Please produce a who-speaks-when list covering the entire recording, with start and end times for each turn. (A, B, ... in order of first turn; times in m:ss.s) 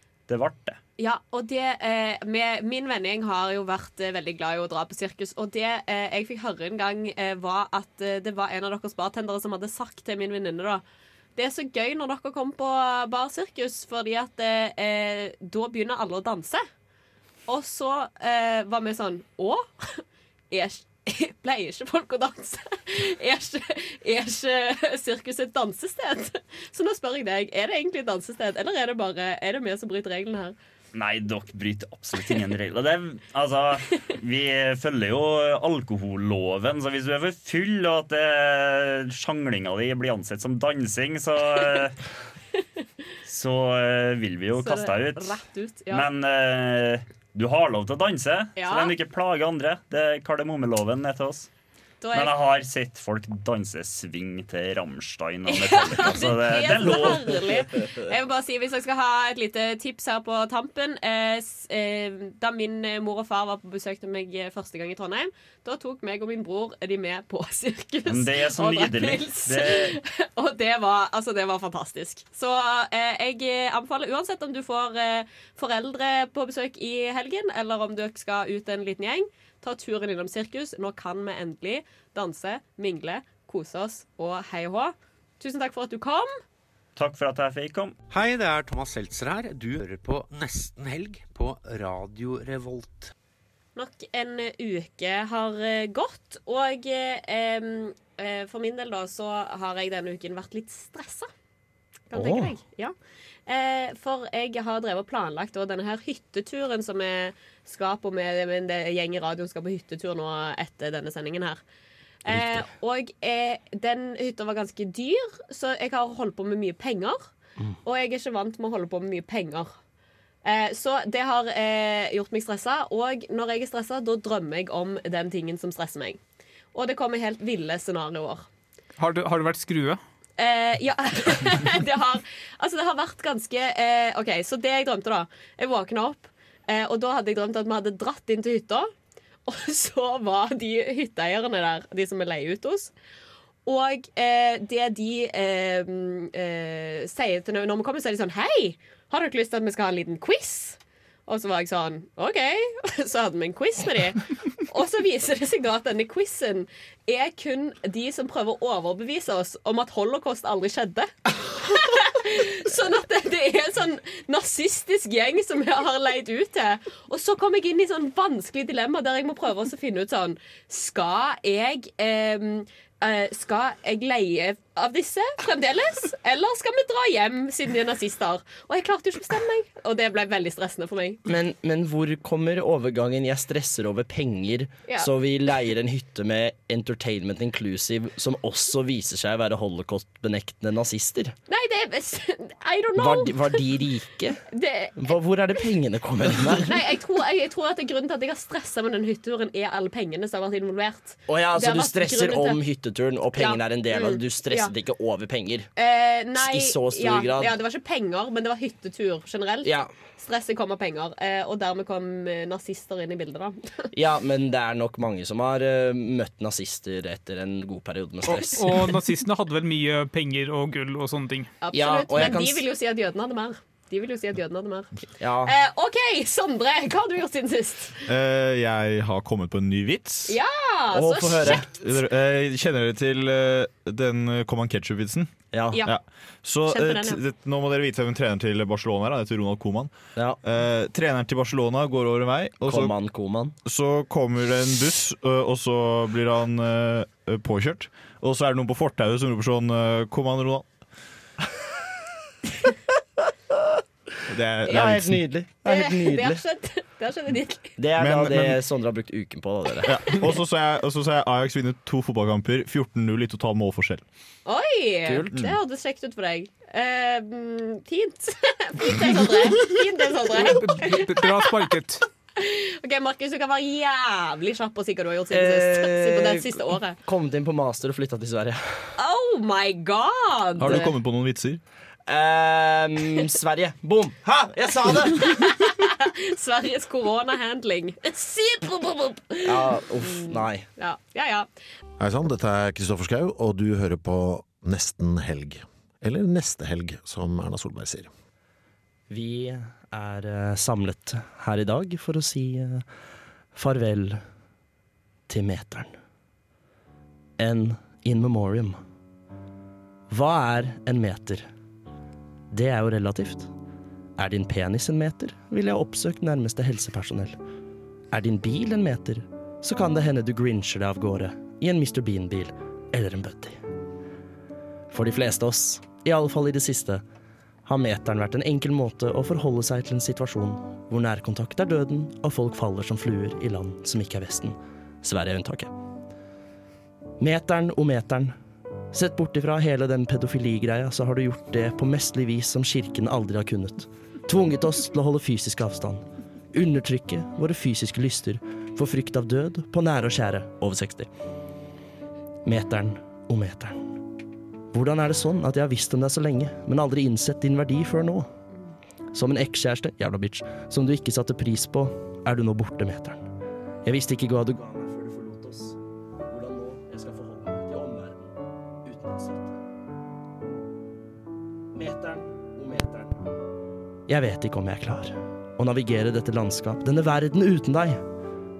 0:00.3-0:00.8 A
0:01.0-0:10.8 B
0:11.4-0:16.6 B
0:17.5-0:30.6 B
0:30.9-0:42.0 A
0:43.2-0:45.4 A
0:44.6-0:46.1 B
0:45.9-0:51.5 A
0:48.6-0:48.9 B
0:52.0-0:52.3 B
0:52.1-0:57.4 A
0:55.5-1:26.3 B
1:08.1-1:10.0 A
1:27.0-1:28.0 A
1:28.1-1:33.1 C
1:33.8-1:41.3 B
1:42.1-1:42.9 B
1:42.1-1:42.6 D
1:43.5-1:51.6 B
1:52.2-1:57.2 B
1:52.3-1:52.7 D
1:57.8-1:59.7 B
2:00.4-2:06.2 B
2:06.7-2:08.5 B
2:09.0-2:10.0 E
2:10.4-2:18.9 B
2:19.5-2:22.9 B
2:23.7-3:01.2 B
3:01.3-3:11.4 D
3:11.5-3:13.6 B
3:13.0-3:14.4 D
3:14.5-3:15.2 B
3:15.0-3:16.8 D
3:16.6-3:22.6 B
3:21.3-3:25.7 D
3:23.4-3:24.7 B
3:25.8-3:33.9 B
3:26.4-3:27.6 D
3:29.6-3:29.9 D
3:33.9-3:38.9 D
3:38.5-3:41.5 E
3:41.6-3:48.0 B
3:41.7-3:42.6 D
3:45.2-3:45.5 D
3:48.1-3:50.4 F
3:50.3-3:51.7 B
3:50.9-3:51.7 D
3:51.4-4:02.9 F
3:55.5-3:55.8 D
3:56.7-3:57.2 B
4:02.6-4:03.6 D
4:03.6-4:10.7 F
4:14.3-4:15.2 F
4:14.7-4:16.4 D
4:15.6-4:17.8 B
4:17.8-4:20.0 D
4:18.0-4:18.6 F
4:19.9-4:24.0 F
4:24.4-4:31.6 B
4:25.1-4:25.3 D
4:30.4-4:32.0 E
4:32.4-4:37.0 B
4:35.3-4:38.9 D
4:39.0-4:40.9 B
4:40.6-4:41.6 F
4:42.1-4:45.4 D
4:45.2-4:51.5 B
4:49.4-4:50.6 D
4:52.0-4:58.1 G
4:59.1-5:02.8 D
5:03.6-5:04.2 D
5:05.3-5:06.0 D
5:07.4-5:08.8 D
5:10.1-5:11.5 D
5:12.5-5:13.5 D
5:14.2-5:17.4 D
5:18.1-5:23.6 D
5:24.9-5:27.0 D
5:27.6-5:35.7 D
5:37.2-5:38.4 D
5:38.9-5:51.1 D
5:52.4-5:53.8 D
5:54.7-5:58.3 D
5:59.1-6:03.2 D
6:03.8-6:09.6 D
6:11.7-6:13.2 D
6:14.1-6:18.0 D